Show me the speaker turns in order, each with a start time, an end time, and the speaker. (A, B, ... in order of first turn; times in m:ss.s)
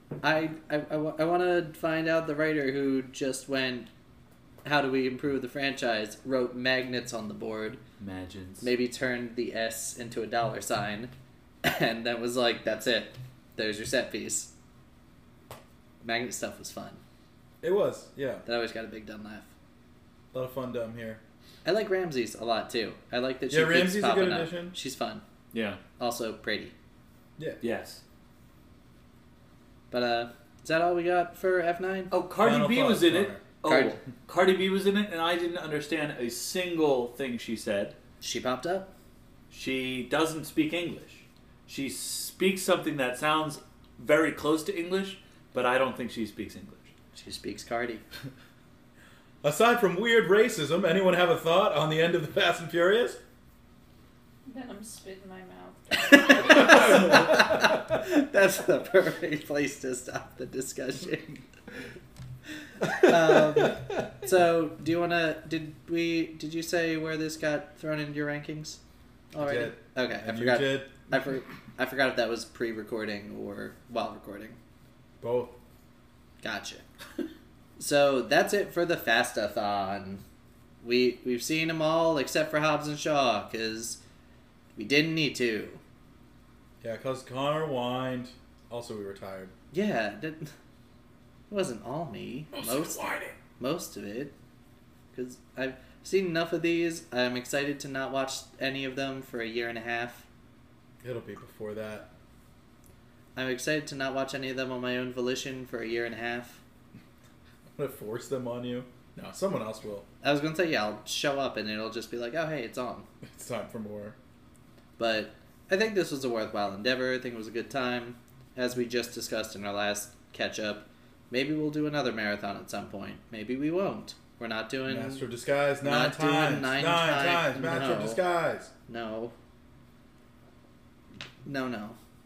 0:00.2-0:03.9 A
0:04.6-0:07.8 A
0:08.0-0:08.7 B
0:08.6-0:14.5 A
0:16.0-0:17.0 A
0:17.6-0:18.4 C
0:18.4-0:19.5 A
0:20.3-0:21.2 C
0:21.6-0:25.2 A
0:23.5-0:24.7 C
0:25.5-0:25.8 B
0:26.0-0:26.7 A
0:27.6-0:28.0 B
0:29.9-0:32.1 A
0:32.1-0:38.0 B
0:32.4-0:33.4 C
0:33.6-0:34.0 A
0:38.2-0:38.9 A
0:39.5-0:46.9 B
0:47.1-0:48.0 A
0:49.4-0:53.2 C
0:54.4-0:57.2 D
0:56.0-1:01.4 A
1:02.9-1:08.8 A
1:09.3-1:14.6 A
1:09.4-1:11.3 C
1:15.2-1:15.6 C
1:16.4-1:16.8 A
1:17.8-1:20.2 A
1:20.8-1:24.0 A
1:24.8-1:25.8 A
1:26.8-1:29.5 C
1:29.7-1:30.5 A
1:31.5-1:34.3 A
1:32.5-1:33.4 C
1:35.1-1:40.3 A
1:41.0-1:42.1 C
1:43.4-1:46.6 A
1:47.8-1:50.1 C
1:50.2-1:53.1 A
1:53.2-1:54.2 C
1:55.0-2:05.3 A
2:04.9-2:08.7 C
2:05.8-2:08.2 A
2:08.9-2:09.4 A
2:11.4-2:12.0 A